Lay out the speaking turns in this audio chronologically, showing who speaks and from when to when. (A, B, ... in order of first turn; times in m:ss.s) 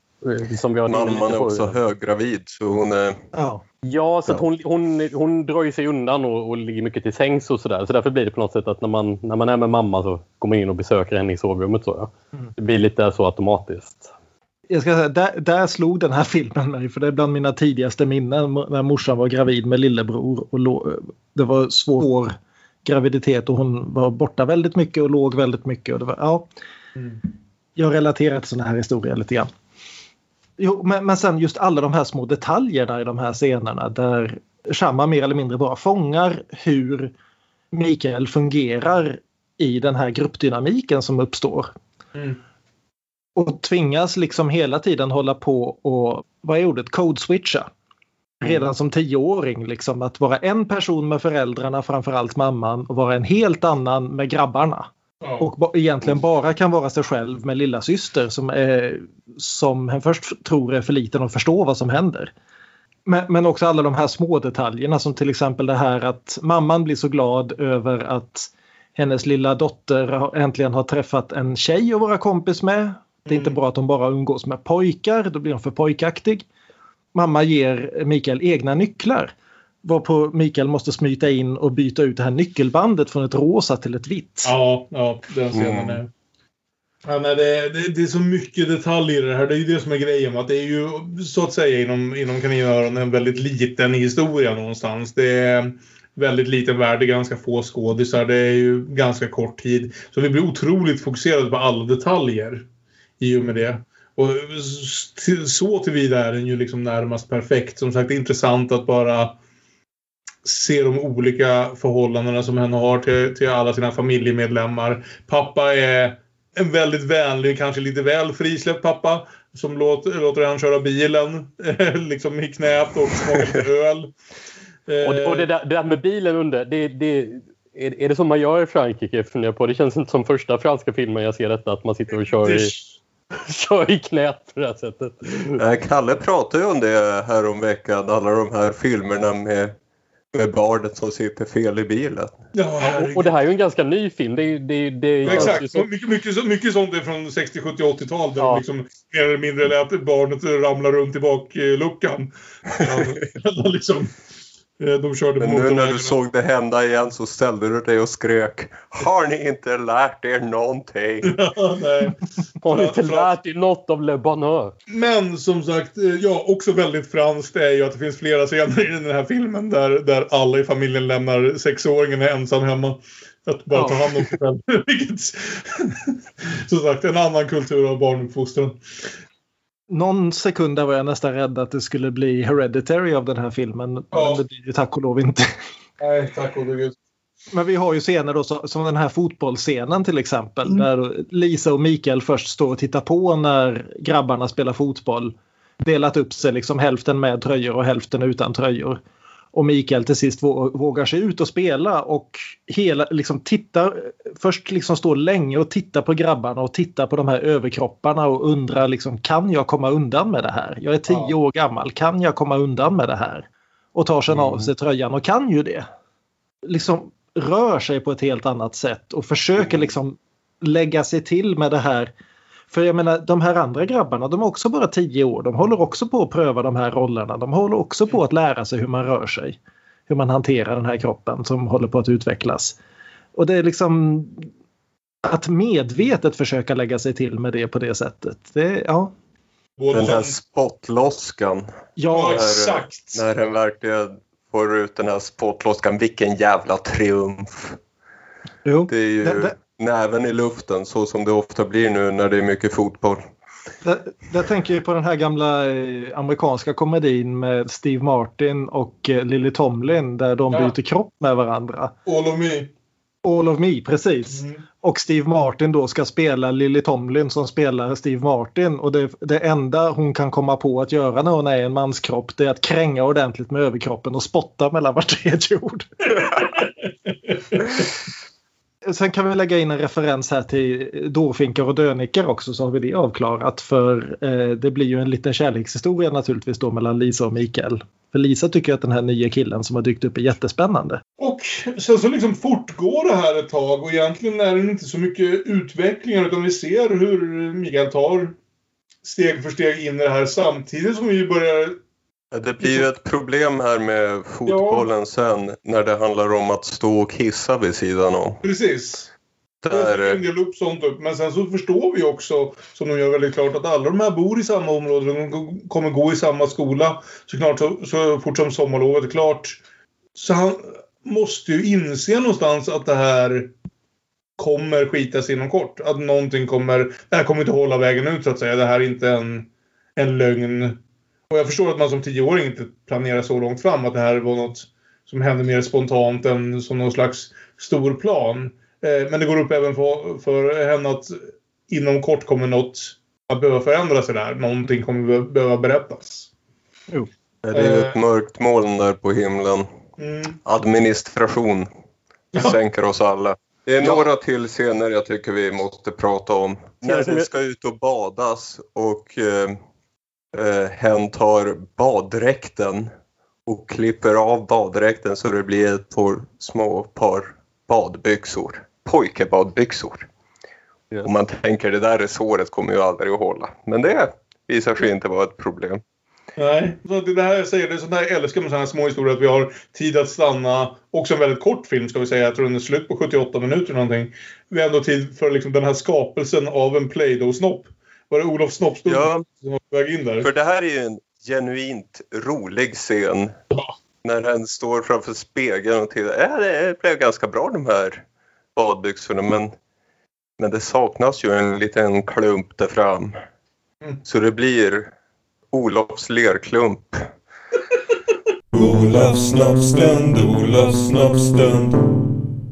0:00.2-0:01.7 A
0:00.8-0:03.2 B
0:03.3-0:03.6 C
0:03.8-0:14.1 A
0:14.7-0:26.5 C
0:27.8-0:29.5 C
0:30.6-0:37.1 C
0:37.7-0:41.7 C
0:43.4-0:47.7 C
0:48.4-0:54.9 C
0:55.4-1:02.3 C
1:03.0-1:16.4 C
1:13.2-1:13.6 D
1:17.1-1:24.5 C
1:24.4-1:26.1 D
1:25.5-1:26.0 B
1:27.0-1:42.6 D
1:43.2-1:49.4 D
1:50.4-2:04.1 D
2:04.9-2:05.5 D
2:05.0-2:12.7 A
2:12.3-2:12.8 D
2:13.4-2:15.6 A
2:15.5-2:19.7 B
2:20.3-2:22.4 B
2:22.5-2:23.3 D
2:22.8-2:25.9 A
2:25.2-2:34.1 D
2:25.2-2:25.6 B
2:28.4-2:28.6 A
2:34.8-2:36.1 D
2:35.4-2:41.3 B
2:41.2-2:43.3 D
2:42.6-2:44.7 A
2:44.9-2:58.8 D
2:59.9-3:05.5 C
3:04.1-3:04.4 D
3:06.0-3:06.9 D
3:07.5-3:19.0 C
3:19.5-3:35.8 C
3:31.1-3:31.3 D
3:34.3-3:34.7 D
3:36.6-3:42.1 C
3:39.6-3:39.8 D
3:42.7-3:52.8 C
3:53.4-3:54.4 C
3:55.2-3:59.1 C
3:59.8-4:00.3 D
3:59.9-4:07.8 B
4:02.0-4:02.4 C
4:02.1-4:03.2 D
4:08.6-4:09.5 C
4:08.9-4:13.2 B
4:13.8-4:21.9 C
4:22.0-4:22.7 D
4:23.2-4:35.9 C
4:24.3-4:24.6 D
4:36.1-4:37.9 D
4:38.8-4:51.0 C
4:51.2-4:58.3 D
4:59.0-5:01.8 D
5:02.3-5:08.4 B
5:04.4-5:04.9 D
5:08.4-5:09.1 D
5:09.6-5:10.2 B
5:09.7-5:19.6 D
5:20.2-5:23.5 D
5:24.4-5:41.2 D
5:41.7-5:46.3 D
5:47.4-5:49.7 B
5:47.5-5:48.0 D
5:50.0-5:50.4 D
5:50.4-5:51.7 B
5:52.3-5:59.6 B
6:00.3-6:02.9 B
6:03.4-6:10.1 B
6:11.0-6:15.8 B
6:16.4-6:30.3 D
6:28.8-6:29.2 B
6:30.2-6:33.4 B
6:34.0-6:38.0 B
6:38.6-6:39.5 B
6:40.4-6:43.2 B
6:44.0-6:44.9 B
6:45.5-6:47.0 B
6:48.5-6:51.7 E